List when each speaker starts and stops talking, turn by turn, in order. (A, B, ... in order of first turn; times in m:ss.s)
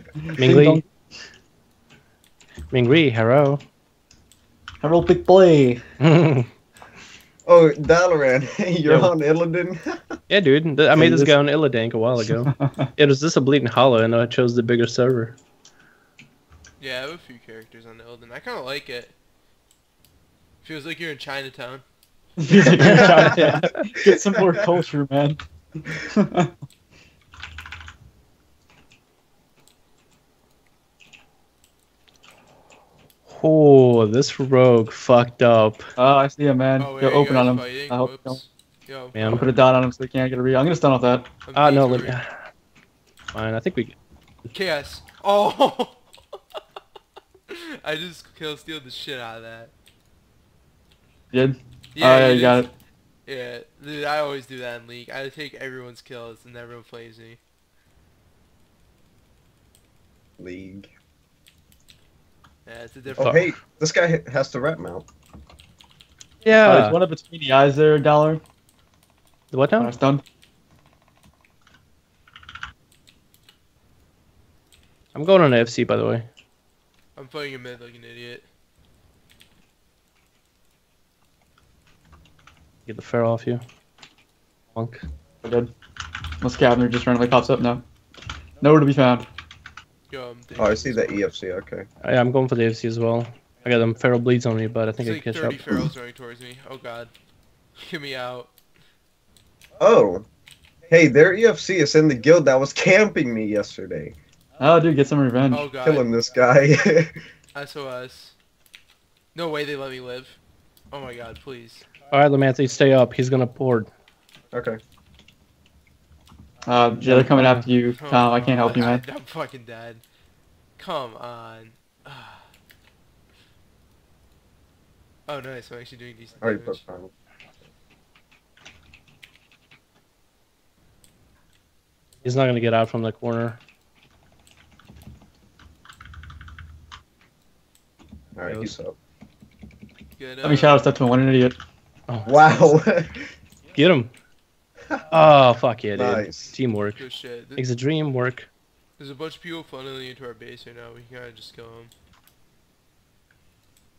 0:00.2-0:00.9 A
0:00.4-0:00.8 B
0:02.7-0:03.6 B
0:04.8-0:05.8 A
0:06.0-0:06.5 B
0:07.5-0:10.2 C
0:10.3-0:15.4 B
0:10.9-0:11.4 A
0:12.2-0:12.9 A
0:16.8-0:19.2 D
0:20.6-0:21.8 D
0:22.4-0:26.5 A
0:22.8-0:23.5 C
0:22.8-0:23.8 B
0:33.3-0:35.9 B
0:36.0-0:38.4 A
0:36.8-0:39.6 D
0:39.2-0:39.5 B
0:39.2-0:41.3 A
0:41.5-0:42.2 D
0:41.6-0:42.4 B
0:43.3-0:44.0 B
0:44.5-0:46.4 D
0:47.5-0:49.7 D
0:51.3-0:52.7 A
0:52.0-0:52.7 D
0:53.3-0:57.4 D
1:00.4-1:00.9 C
1:02.7-1:03.4 D
1:03.1-1:05.1 C
1:03.2-1:03.5 B
1:06.4-1:07.0 B
1:06.6-1:08.4 A
1:09.5-1:09.9 B
1:09.8-1:10.2 A
1:15.1-1:16.3 B
1:17.2-1:18.5 D
1:22.9-1:23.6 B
1:24.8-1:25.0 B
1:25.4-1:25.7 A
1:26.4-1:27.8 A
1:28.6-1:29.3 A
1:30.1-1:31.3 D
1:30.6-1:31.9 C
1:32.0-1:35.8 B
1:35.0-1:37.1 D
1:37.8-1:38.5 D
1:39.8-1:40.3 C
1:40.9-1:44.2 C
1:44.6-1:45.7 A
1:45.5-1:46.1 D
1:45.8-1:47.2 C
1:47.5-1:48.4 D
1:49.3-1:50.4 D
1:50.9-1:51.9 D
1:52.1-1:53.9 B
1:54.5-1:54.8 C
1:56.7-1:59.0 A
1:57.0-1:57.7 B
1:58.0-2:00.0 D
2:00.8-2:02.5 D
2:05.3-2:06.8 D
2:06.4-2:07.1 C
2:12.2-2:13.6 B
2:18.4-2:19.0 C
2:18.5-2:18.7 B
2:20.2-2:20.9 D
2:20.4-2:21.6 A
2:22.3-2:23.2 C
2:23.8-2:24.1 B
2:25.1-2:27.0 B
2:26.0-2:26.5 C
2:27.0-2:27.6 D
2:27.6-2:28.5 B
2:29.0-2:31.9 D